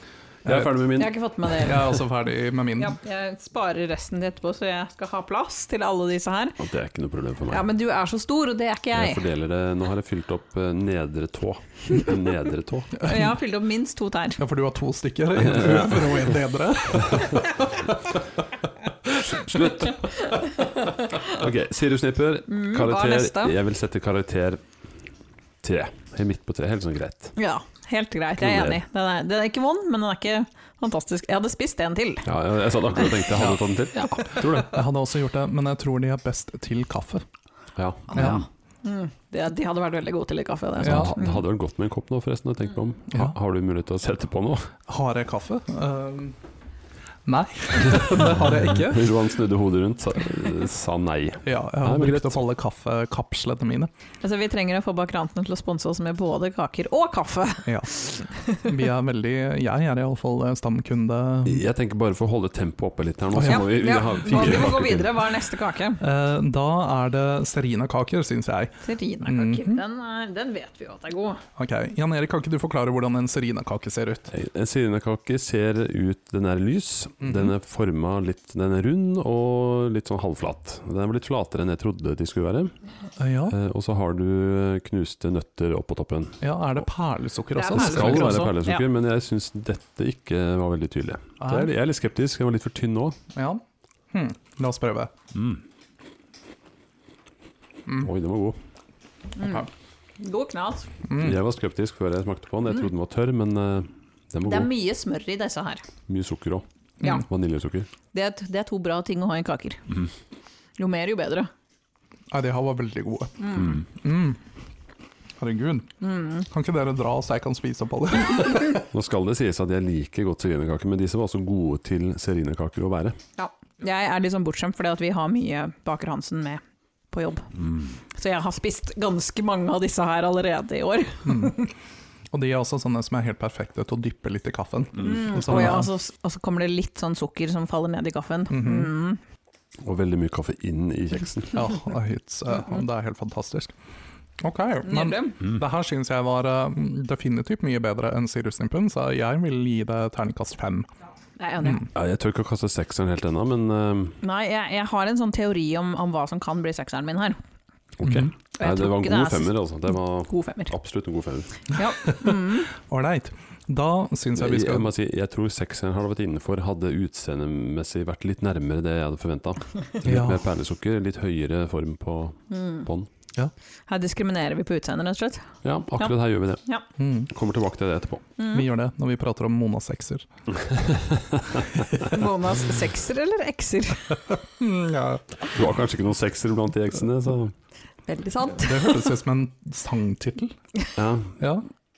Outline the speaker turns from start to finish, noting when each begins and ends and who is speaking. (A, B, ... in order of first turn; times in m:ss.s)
0:00.4-0:01.2 A
0:00.4-0:03.0 B
0:01.0-0:02.0 C
0:02.8-0:06.6 C
0:06.6-0:07.7 A
0:07.5-0:09.3 C
0:08.9-0:13.0 A
0:13.0-0:13.4 B
0:13.0-0:14.4 C
0:14.4-0:18.2 B
0:15.4-0:16.4 A
0:17.0-0:17.3 A
0:19.1-0:19.7 B
0:19.3-0:20.0 A
0:20.2-0:21.4 C
0:21.2-0:24.7 A
0:22.5-0:23.6 C
0:25.6-0:27.4 A
0:27.4-0:32.3 C
0:28.4-0:28.8 A
0:32.2-0:34.8 A
0:33.0-0:33.3 C
0:33.9-0:34.6 C
0:34.3-0:37.2 B
0:37.8-0:38.5 A
0:38.1-0:41.4 C
0:38.1-0:38.4 B
0:40.8-0:41.2 B
0:40.8-0:44.7 A
0:44.9-0:46.4 B
0:47.3-0:49.2 B
0:48.7-0:52.4 A
0:51.4-0:53.9 B
0:54.2-0:58.7 C
0:57.6-0:57.9 B
0:58.6-1:01.6 B
1:01.4-1:05.3 A
1:03.4-1:03.7 B
1:03.4-1:06.0 C
1:06.0-1:09.8 B
1:08.8-1:11.4 C
1:11.6-1:14.3 B
1:14.3-1:22.7 A
1:17.2-1:17.5 B
1:23.2-1:23.6 B
1:23.5-1:26.4 A
1:26.4-1:28.5 B
1:27.6-1:28.8 C
1:27.7-1:33.2 A
1:31.4-1:31.7 B
1:33.3-1:33.6 B
1:34.1-1:35.1 B
1:35.3-1:35.6 A
1:38.0-1:38.6 A
1:39.4-1:39.7 C
1:40.2-1:40.9 C
1:41.1-1:41.4 B
1:41.2-1:44.7 A
1:44.4-1:45.8 C
1:46.1-1:47.9 A
1:48.1-1:49.8 C
1:50.8-1:51.5 C
1:52.3-1:54.4 B
1:53.4-1:53.8 C
1:55.4-1:58.9 B
1:56.0-1:56.5 C
1:58.9-2:03.2 A
2:03.4-2:07.5 C
2:08.1-2:11.7 C
2:11.3-2:11.6 B
2:12.3-2:15.9 B
2:15.0-2:19.2 C
2:18.5-2:18.9 B
2:19.8-2:21.7 A
2:21.5-2:23.7 B
2:24.4-2:30.9 B
2:24.8-2:25.4 C
2:31.4-2:31.9 C
2:31.9-2:34.2 A
2:34.2-2:37.4 C
2:38.0-2:41.7 A
2:38.0-2:38.3 B
2:38.6-2:39.6 C
2:40.2-2:40.7 C
2:41.7-2:42.7 C
2:42.1-2:44.9 B
2:44.4-2:53.1 A
2:50.0-2:50.4 B
2:52.5-2:52.9 C
2:53.9-2:56.1 C
2:55.6-2:56.6 A
2:57.0-2:57.3 B
2:57.3-2:58.2 A
2:58.4-2:58.7 C
2:58.5-3:00.3 B
3:00.7-3:01.6 A
3:02.0-3:04.2 C
3:04.6-3:05.5 B
3:05.5-3:07.6 A
3:08.1-3:09.0 C
3:08.6-3:10.6 B
3:11.0-3:11.4 A
3:11.4-3:11.6 B